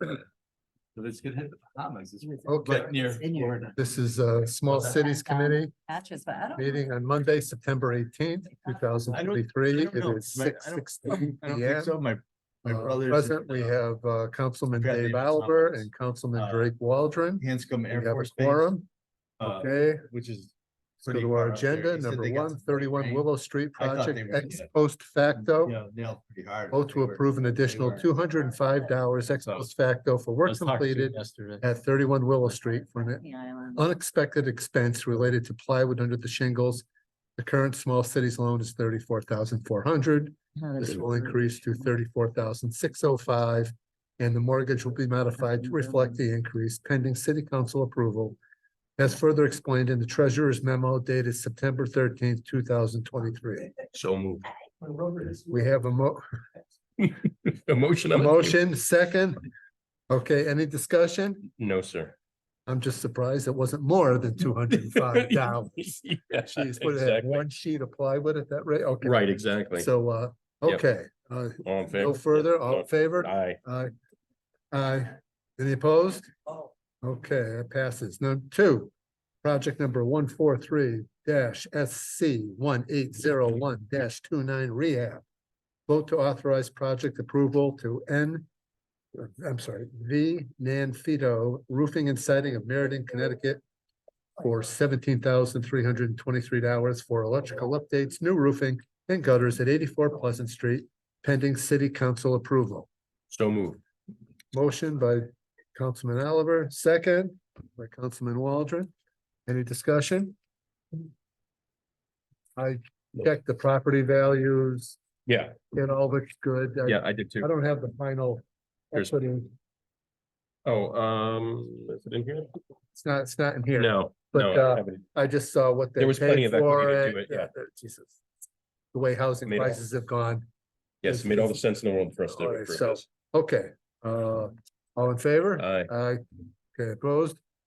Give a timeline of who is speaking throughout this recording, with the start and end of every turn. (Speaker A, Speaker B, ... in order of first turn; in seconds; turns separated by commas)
Speaker A: 0.9-3.8, Speaker B: 2.2-2.5, Speaker C: 2.5-3.0, Speaker B: 3.2-3.5, Speaker C: 3.7-5.7, Speaker B: 5.1-6.8, Speaker C: 6.6-11.9, Speaker A: 9.1-13.8, Speaker C: 12.7-18.9, Speaker A: 14.7-16.8, Speaker A: 17.4-18.8, Speaker A: 19.4-24.7, Speaker C: 19.4-20.1, Speaker C: 21.0-25.8, Speaker A: 25.4-28.1, Speaker C: 26.7-33.2, Speaker A: 29.4-29.7, Speaker A: 30.4-31.6, Speaker B: 32.9-33.8, Speaker C: 33.8-36.9, Speaker C: 37.4-48.4, Speaker C: 49.0-53.7, Speaker D: 53.9-54.5, Speaker C: 55.4-56.2, Speaker D: 57.0-58.6, Speaker C: 58.1-59.4, Speaker C: 60.1-61.5, Speaker D: 61.6-62.1, Speaker C: 62.7-73.9, Speaker D: 64.7-67.4, Speaker D: 69.0-69.9, Speaker D: 71.6-73.6, Speaker C: 74.7-76.3, Speaker C: 77.0-78.9, Speaker C: 79.4-85.2, Speaker C: 85.9-88.5, Speaker C: 89.2-93.6, Speaker C: 94.4-102.9, Speaker D: 103.3-103.8, Speaker C: 104.5-108.9, Speaker C: 109.5-110.3, Speaker C: 112.6-115.0, Speaker D: 115.3-115.6, Speaker C: 115.7-119.5, Speaker D: 116.8-117.5, Speaker D: 120.7-122.5, Speaker C: 122.9-128.2, Speaker D: 123.7-125.0, Speaker D: 126.0-127.5, Speaker C: 128.9-130.5, Speaker D: 129.5-129.8, Speaker D: 131.0-133.0, Speaker C: 131.1-131.6, Speaker C: 132.3-136.2, Speaker D: 135.6-135.9, Speaker C: 136.8-137.4